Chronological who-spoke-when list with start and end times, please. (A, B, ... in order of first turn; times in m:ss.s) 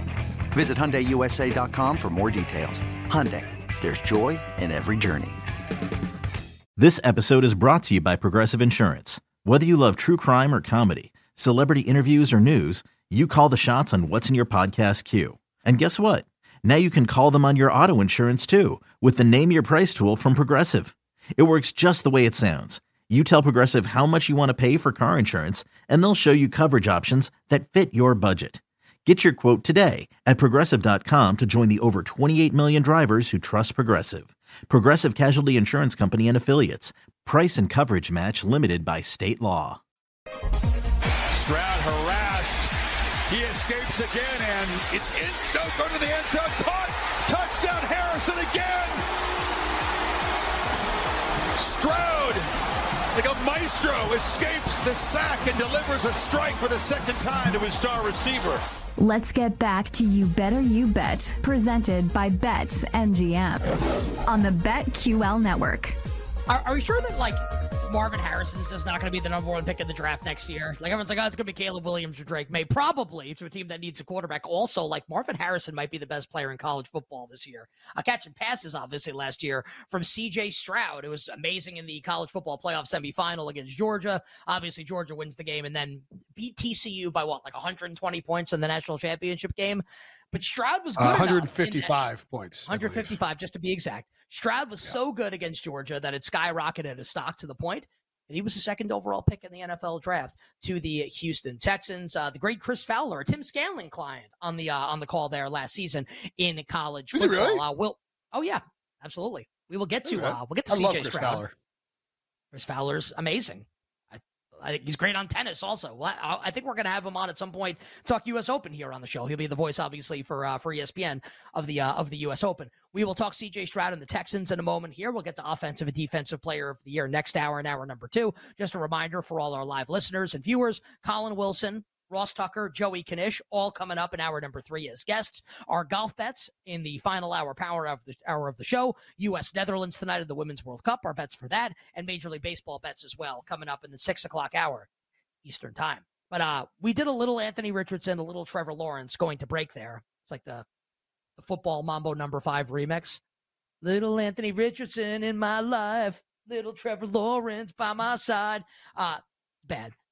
0:00.5-0:05.4 A
0:06.8-0:39.8 B
0:41.3-0:42.7 C
0:43.3-0:49.1 C
0:51.6-0:52.5 C
0:53.1-0:58.6 C
0:59.0-1:03.7 D
1:04.3-1:05.9 D
1:06.5-1:32.0 E
1:31.0-1:33.2 F
1:32.7-1:51.4 E
1:47.1-1:47.6 F
1:50.1-1:51.5 F
1:52.5-2:24.9 E
2:25.4-2:30.6 E
2:31.4-2:33.2 E
2:33.8-2:40.0 E